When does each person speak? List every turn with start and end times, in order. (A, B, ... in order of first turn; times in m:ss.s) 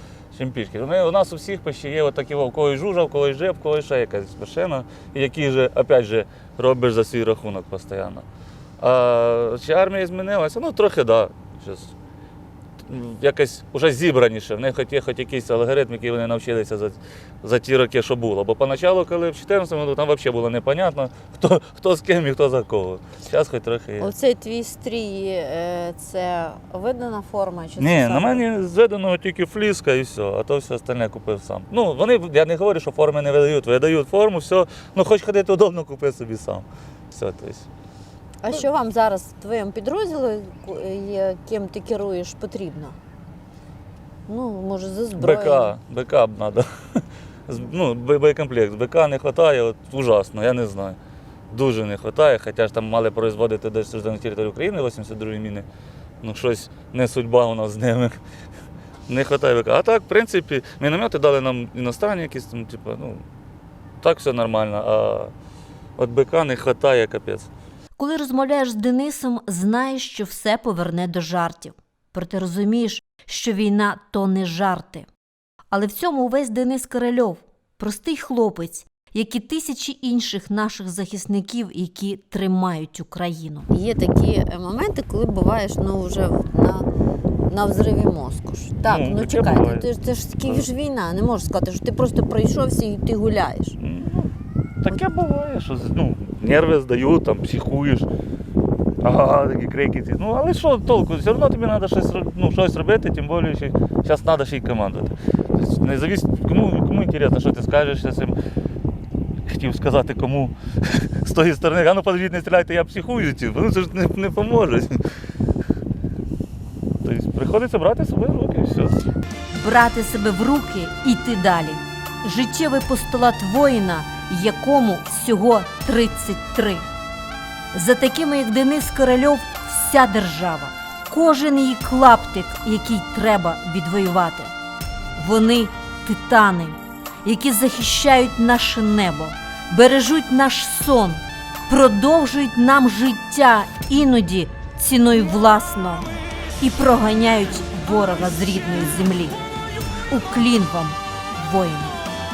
0:00.3-0:08.3 A
0:08.8-0:11.9 A
0:12.9-0:24.1 A
0:24.0-0:28.5 B
0:27.8-0:37.7 A
0:38.4-0:43.0 B
0:44.3-0:45.8 B
0:45.2-0:51.0 A
0:51.5-0:55.7 A
0:56.2-0:58.2 A
0:59.1-1:03.2 A
1:04.0-1:05.3 A
1:06.0-1:07.5 A
1:08.0-1:15.1 C
1:15.7-1:23.7 C
1:23.7-1:26.9 B
1:27.5-1:33.8 B
1:28.9-1:29.9 A
1:30.4-1:30.7 A
1:33.8-1:38.1 A
1:39.0-1:48.4 A
1:49.5-1:55.0 A
1:57.0-1:59.0 A
1:59.5-2:06.9 C
2:07.7-2:14.5 C
2:15.2-2:26.1 C
2:26.6-2:29.4 C
2:30.1-2:32.0 C